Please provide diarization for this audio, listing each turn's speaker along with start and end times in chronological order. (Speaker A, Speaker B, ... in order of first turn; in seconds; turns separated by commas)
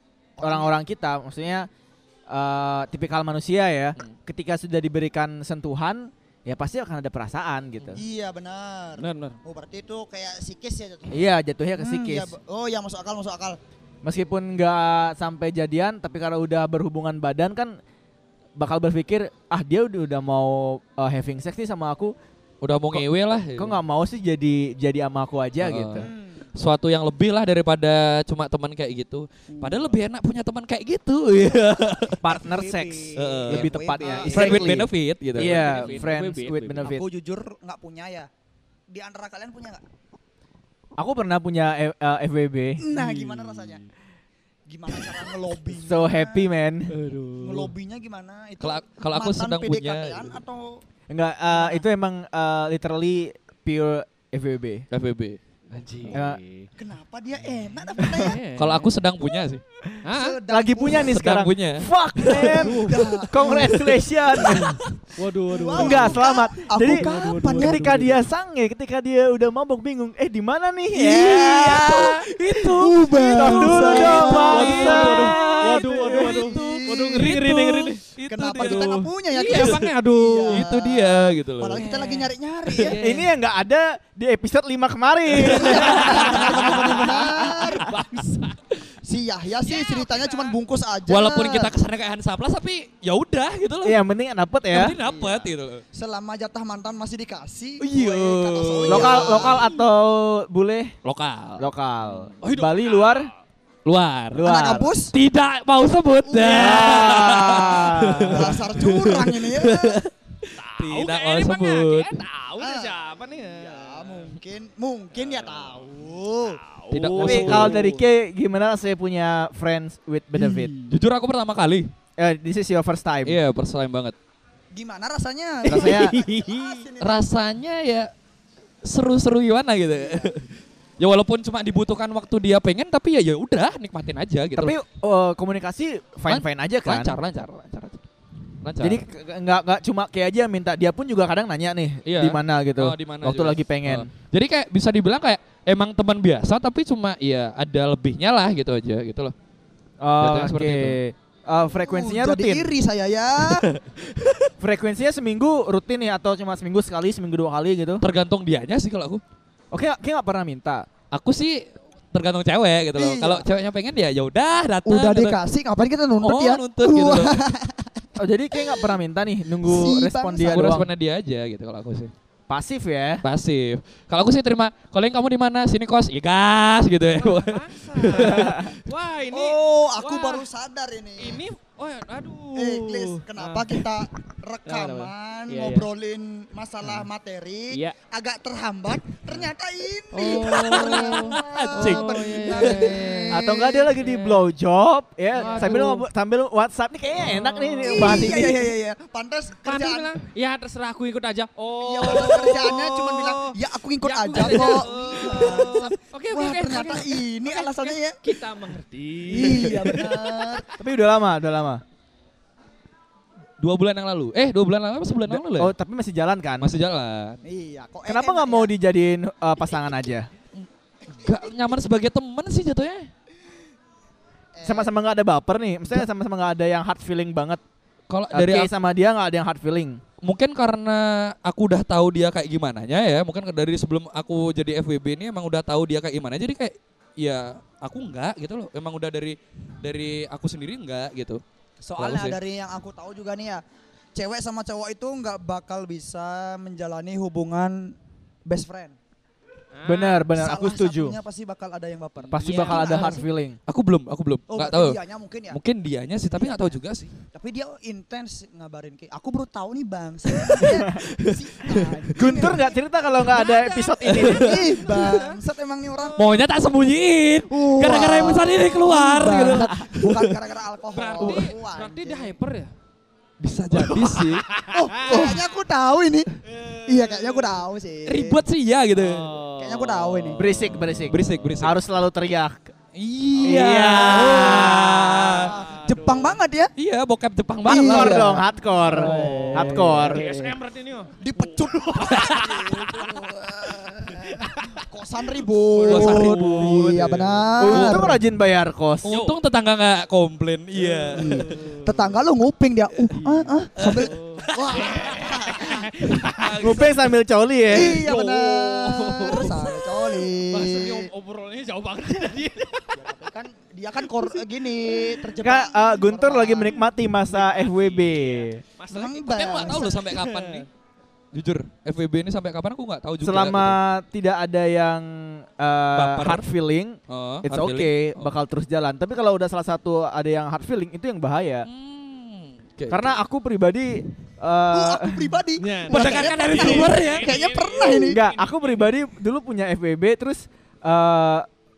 Speaker A: 0.4-0.7, Speaker B: 0.4-1.7, Speaker B: 2.3-8.0, Speaker A: 8.0-13.6, Speaker C: 9.0-9.4, Speaker B: 11.1-12.3, Speaker B: 14.0-17.7, Speaker B: 18.6-22.1, Speaker D: 22.6-23.8, Speaker B: 23.6-26.1, Speaker D: 25.6-32.4, Speaker A: 26.0-26.5, Speaker A: 29.6-29.9, Speaker B: 32.2-37.0, Speaker A: 32.5-34.8, Speaker D: 33.2-36.0, Speaker C: 34.0-34.3, Speaker C: 35.4-37.0, Speaker A: 36.8-38.3, Speaker A: 38.9-39.8, Speaker B: 41.0-42.8, Speaker A: 42.8-43.8, Speaker C: 42.9-43.9, Speaker A: 44.7-46.5, Speaker B: 45.7-46.9, Speaker C: 46.9-47.7, Speaker A: 47.4-50.8, Speaker D: 48.6-50.4, Speaker B: 51.1-54.8, Speaker A: 51.5-51.8, Speaker D: 54.9-55.4, Speaker C: 55.7-56.7, Speaker B: 56.1-56.4, Speaker A: 56.8-58.4, Speaker C: 58.0-58.9, Speaker B: 58.0-58.3, Speaker D: 58.6-59.6, Speaker C: 60.0-60.4, Speaker A: 60.1-61.2, Speaker B: 60.5-64.8, Speaker D: 60.9-61.9, Speaker A: 62.2-64.6, Speaker C: 62.2-63.5, Speaker C: 64.3-68.3, Speaker A: 65.5-68.0, Speaker B: 65.7-72.1, Speaker A: 71.0-77.3, Speaker D: 71.0-79.9, Speaker C: 71.8-72.7, Speaker B: 73.3-76.5, Speaker C: 73.6-78.0, Speaker A: 78.3-83.0, Speaker C: 78.6-80.7, Speaker D: 80.5-81.9, Speaker C: 81.8-82.3, Speaker D: 82.7-83.3, Speaker B: 82.9-87.5, Speaker D: 85.3-88.0, Speaker A: 85.5-88.0, Speaker C: 87.8-88.5, Speaker A: 89.0-91.7, Speaker C: 89.6-90.6, Speaker D: 91.1-94.0, Speaker B: 93.8-95.0, Speaker D: 94.7-95.8, Speaker C: 95.0-95.5, Speaker A: 95.9-99.7, Speaker D: 97.8-99.7, Speaker B: 98.9-100.9, Speaker D: 101.0-101.7, Speaker B: 101.6-103.3, Speaker C: 102.4-103.3, Speaker D: 103.8-104.6, Speaker B: 104.3-104.9, Speaker A: 104.4-105.1, Speaker D: 105.1-112.2, Speaker A: 106.2-110.0, Speaker B: 106.5-108.5, Speaker C: 106.6-107.0, Speaker C: 110.5-114.3, Speaker A: 112.6-113.0, Speaker A: 113.5-116.6, Speaker C: 115.1-118.0, Speaker D: 116.9-117.9, Speaker B: 117.2-120.7, Speaker D: 120.9-121.9, Speaker B: 122.2-123.4, Speaker D: 123.2-124.1, Speaker A: 124.7-127.3, Speaker B: 125.7-126.2, Speaker C: 125.7-126.9, Speaker D: 127.0-128.1, Speaker D: 128.8-134.8, Speaker A: 130.0-130.3, Speaker B: 134.6-137.2, Speaker D: 136.3-138.0, Speaker D: 138.6-139.0, Speaker B: 138.8-144.1, Speaker D: 142.1-149.3, Speaker B: 150.0-152.7, Speaker D: 150.2-151.0, Speaker A: 151.8-153.7, Speaker D: 153.4-154.5, Speaker B: 154.6-158.0, Speaker D: 158.0-159.2, Speaker B: 159.7-160.9, Speaker D: 161.1-165.4, Speaker A: 162.9-163.4, Speaker A: 164.9-168.0, Speaker D: 166.2-167.4, Speaker B: 168.2-170.9, Speaker A: 168.5-168.9, Speaker A: 169.6-170.7, Speaker D: 170.4-172.1, Speaker B: 172.5-173.2, Speaker D: 173.2-178.7, Speaker C: 177.1-180.5, Speaker B: 178.2-178.7, Speaker A: 179.3-181.4, Speaker C: 181.2-183.9, Speaker A: 182.6-193.9, Speaker C: 184.7-185.9, Speaker C: 187.7-188.0, Speaker C: 190.1-193.3, Speaker D: 190.9-192.0, Speaker B: 191.8-192.2, Speaker B: 193.3-198.7, Speaker C: 193.9-194.5, Speaker C: 195.3-196.0, Speaker A: 195.4-195.8, Speaker C: 197.2-198.5, Speaker A: 197.8-200.1, Speaker C: 199.6-210.7, Speaker A: 201.7-208.2, Speaker A: 209.3-210.7, Speaker B: 210.8-211.8, Speaker D: 213.6-215.7, Speaker B: 215.3-216.7, Speaker D: 216.6-217.4, Speaker A: 217.4-218.7, Speaker B: 218.1-220.3, Speaker D: 220.6-223.1, Speaker A: 224.6-224.9, Speaker B: 224.6-227.6, Speaker D: 228.1-228.7, Speaker B: 228.3-230.0, Speaker D: 230.2-241.4, Speaker A: 241.8-243.6, Speaker D: 242.0-242.4, Speaker A: 244.1-248.9, Speaker C: 249.7-250.2, Speaker B: 249.8-251.2, Speaker A: 250.3-253.2, Speaker B: 252.3-253.6, Speaker C: 252.3-253.2, Speaker D: 253.7-255.0, Speaker A: 254.5-255.6, Speaker D: 255.5-257.1, Speaker A: 256.3-256.8, Speaker A: 257.3-262.7, Speaker D: 260.4-262.5, Speaker B: 262.2-264.7, Speaker C: 263.2-265.4, Speaker D: 264.1-264.4, Speaker A: 264.3-266.2, Speaker C: 265.9-266.3, Speaker D: 266.2-270.4, Speaker A: 267.5-272.3, Speaker C: 270.9-272.7, Speaker D: 273.4-274.4, Speaker C: 273.7-275.4, Speaker A: 274.7-276.3, Speaker C: 276.5-277.4, Speaker A: 276.9-278.4, Speaker D: 278.1-279.3, Speaker C: 279.0-281.6, Speaker A: 279.6-280.5, Speaker B: 280.4-282.7, Speaker D: 280.6-281.8, Speaker D: 282.9-285.5, Speaker B: 283.4-285.2, Speaker C: 283.9-286.4, Speaker A: 284.1-286.7, Speaker D: 286.8-288.4, Speaker A: 287.6-288.4, Speaker B: 287.6-290.3, Speaker C: 288.8-293.0, Speaker D: 288.9-290.2, Speaker A: 289.0-289.4, Speaker A: 291.2-298.1, Speaker D: 292.0-292.6, Speaker C: 294.2-294.8, Speaker C: 295.7-297.0, Speaker D: 295.9-298.1, Speaker B: 297.6-299.1, Speaker C: 299.1-299.4, Speaker D: 299.1-301.6, Speaker C: 300.7-302.1, Speaker A: 301.2-305.9, Speaker D: 303.8-307.0, Speaker C: 304.0-306.8, Speaker B: 306.6-308.1, Speaker A: 307.7-311.1, Speaker C: 307.7-313.0, Speaker A: 312.9-316.8, Speaker B: 315.4-318.6, Speaker C: 317.2-320.7, Speaker A: 318.9-320.0, Speaker D: 319.3-320.7, Speaker D: 321.3-323.8, Speaker B: 323.2-331.7, Speaker D: 325.9-326.4, Speaker D: 327.1-328.3, Speaker D: 331.6-333.1, Speaker B: 332.9-335.4, Speaker A: 334.7-338.2, Speaker C: 335.6-338.9, Speaker D: 335.9-337.4, Speaker B: 338.1-341.5